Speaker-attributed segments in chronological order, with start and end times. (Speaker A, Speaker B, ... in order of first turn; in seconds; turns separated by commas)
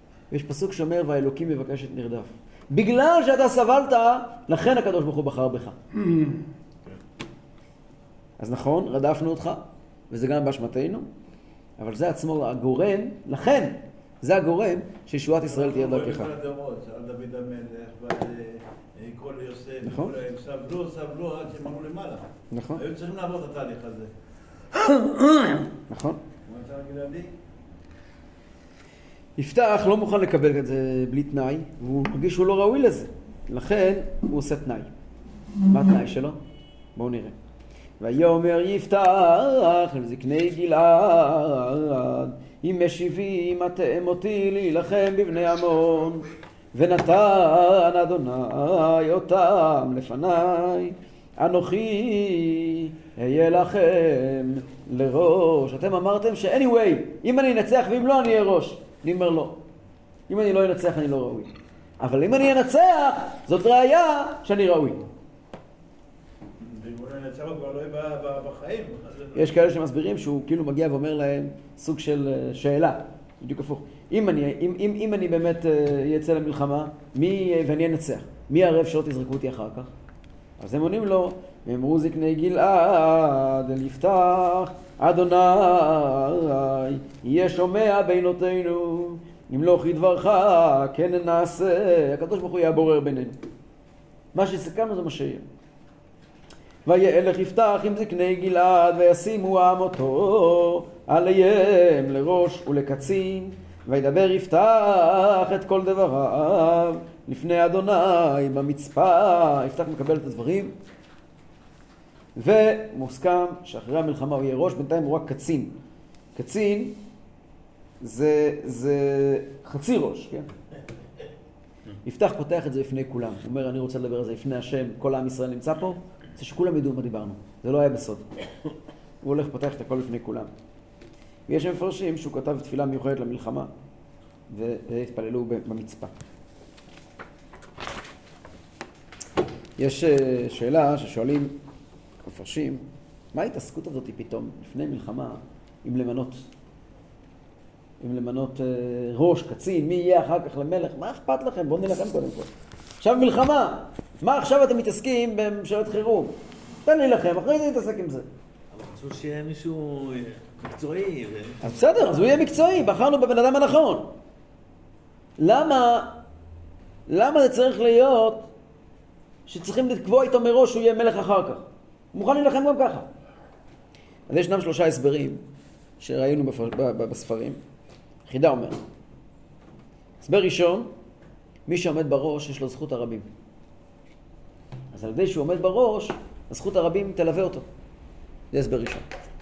Speaker A: 0.3-5.8, Speaker A: 8.4-11.1, Speaker A: 11.8-16.3, Speaker B: 15.4-24.1, Speaker A: 19.8-20.1, Speaker A: 22.5-22.8, Speaker B: 24.8-25.6, Speaker A: 25.9-26.2, Speaker B: 26.5-27.3, Speaker A: 29.4-34.9, Speaker A: 35.7-36.4, Speaker A: 37.0-37.3, Speaker A: 38.0-59.6, Speaker A: 60.3-65.0, Speaker B: 66.6-69.5, Speaker A: 69.3-79.9, Speaker A: 80.6-93.3, Speaker A: 94.3-95.4, Speaker A: 96.8-110.7, Speaker A: 112.3-115.8, Speaker A: 116.3-117.0, Speaker A: 118.0-120.5, Speaker A: 122.0-128.3, Speaker A: 129.2-130.5, Speaker A: 131.5-133.7, Speaker A: 134.5-136.1, Speaker A: 139.8-141.5, Speaker A: 142.2-146.4, Speaker A: 148.0-152.5, Speaker A: 153.0-158.3, Speaker C: 158.7-161.7, Speaker A: 161.6-164.1, Speaker A: 165.4-166.2, Speaker A: 167.1-168.5, Speaker A: 169.5-173.1, Speaker A: 174.3-175.4, Speaker A: 176.0-177.6, Speaker A: 178.3-178.8, Speaker A: 180.2-180.9, Speaker A: 181.7-183.3, Speaker A: 184.9-187.7, Speaker A: 188.5-189.0